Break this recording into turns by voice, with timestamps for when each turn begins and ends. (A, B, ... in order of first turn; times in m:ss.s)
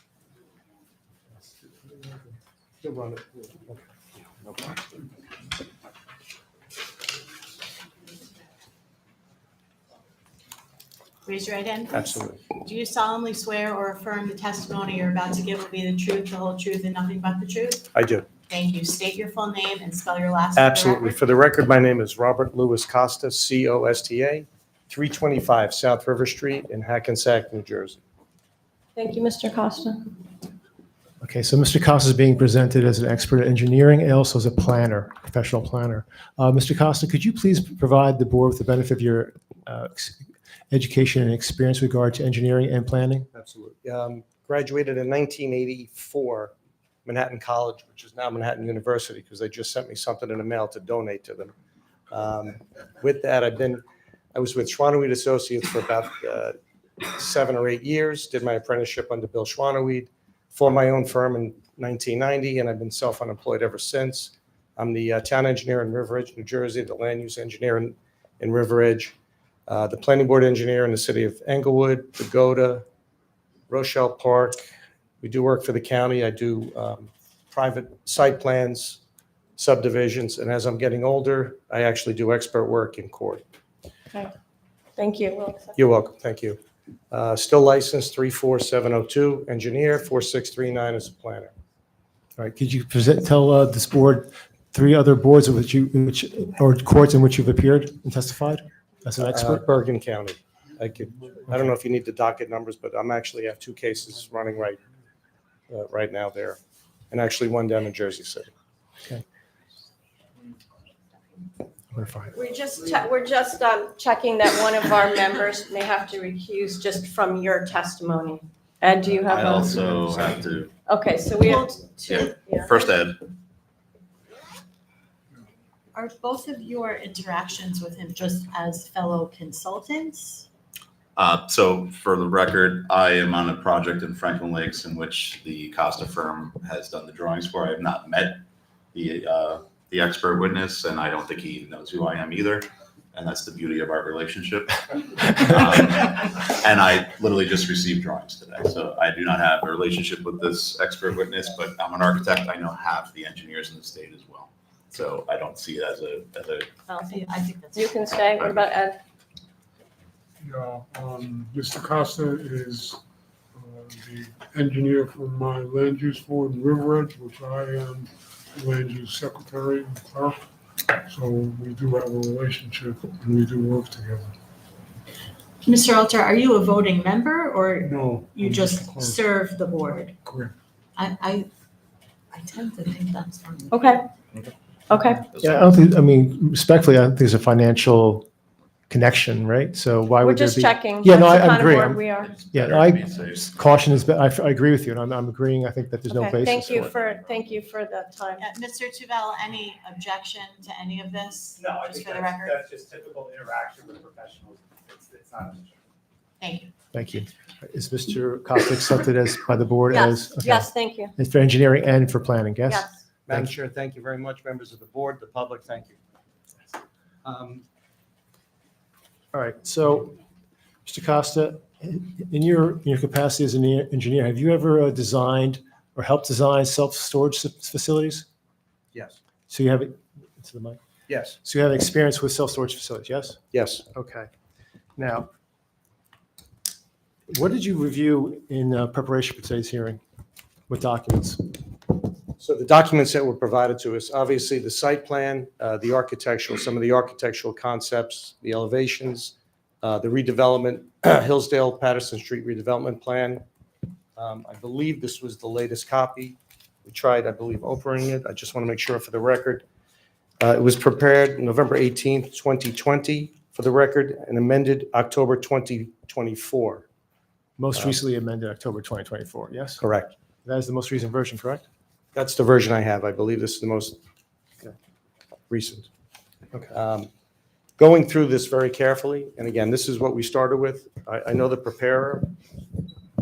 0:02.8-0:03.8 A
0:11.2-0:17.9 B
0:11.9-0:12.5 A
0:17.9-0:18.3 A
0:18.5-0:21.2 B
0:20.6-0:28.0 A
0:29.0-0:30.1 C
0:31.2-0:43.3 D
0:43.3-0:46.5 A
0:47.0-0:51.5 A
0:52.1-0:53.8 A
0:54.3-0:56.5 A
0:57.0-1:09.1 A
1:09.7-1:12.8 A
1:13.7-1:14.6 A
1:15.2-1:19.0 A
1:19.6-1:23.4 A
1:25.0-1:25.7 C
1:25.8-1:26.6 A
1:27.1-1:31.5 A
1:32.4-1:39.6 D
1:39.2-1:44.8 A
1:45.7-1:46.6 A
1:47.1-1:48.5 A
1:51.9-1:52.3 D
1:52.3-2:00.0 C
1:59.3-2:00.7 E
2:00.8-2:02.8 C
2:01.4-2:01.9 B
2:02.1-2:03.2 E
2:05.9-2:10.4 B
2:11.2-2:18.4 E
2:18.9-2:36.7 E
2:36.9-2:38.0 B
2:37.7-2:39.0 C
2:38.4-2:38.6 E
2:40.4-2:42.9 F
2:43.8-2:48.0 F
2:48.6-2:50.3 F
2:51.1-2:54.2 F
2:55.6-3:00.1 B
2:57.9-2:59.1 F
3:01.0-3:01.5 B
3:02.3-3:04.0 B
3:03.7-3:04.0 C
3:04.9-3:05.2 C
3:05.3-3:05.7 E
3:05.4-3:08.2 D
3:08.9-3:12.0 D
3:10.2-3:12.3 C
3:12.2-3:13.5 E
3:12.5-3:16.9 D
3:16.1-3:18.4 C
3:18.4-3:22.5 B
3:21.5-3:25.7 G
3:26.4-3:26.7 B
3:26.9-3:33.5 D
3:29.9-3:31.1 C
3:32.7-3:33.0 C
3:33.3-3:36.0 A
3:37.2-3:37.6 A
3:39.3-3:40.2 D
3:40.8-3:48.2 D
3:48.9-3:49.2 A
3:49.5-3:50.8 D
3:51.1-3:51.4 A
3:51.4-3:54.3 D
3:53.5-3:53.8 A
3:55.0-3:55.3 D
3:57.3-4:00.0 D
4:00.7-4:01.4 D
4:02.4-4:13.4 A
4:14.2-4:19.6 A
4:20.4-4:26.8 A
4:27.6-4:29.9 D
4:29.8-4:30.1 A
4:30.4-4:31.6 D
4:32.1-4:34.0 A
4:35.5-4:35.9 A
4:36.7-4:37.1 A
4:37.8-4:42.3 A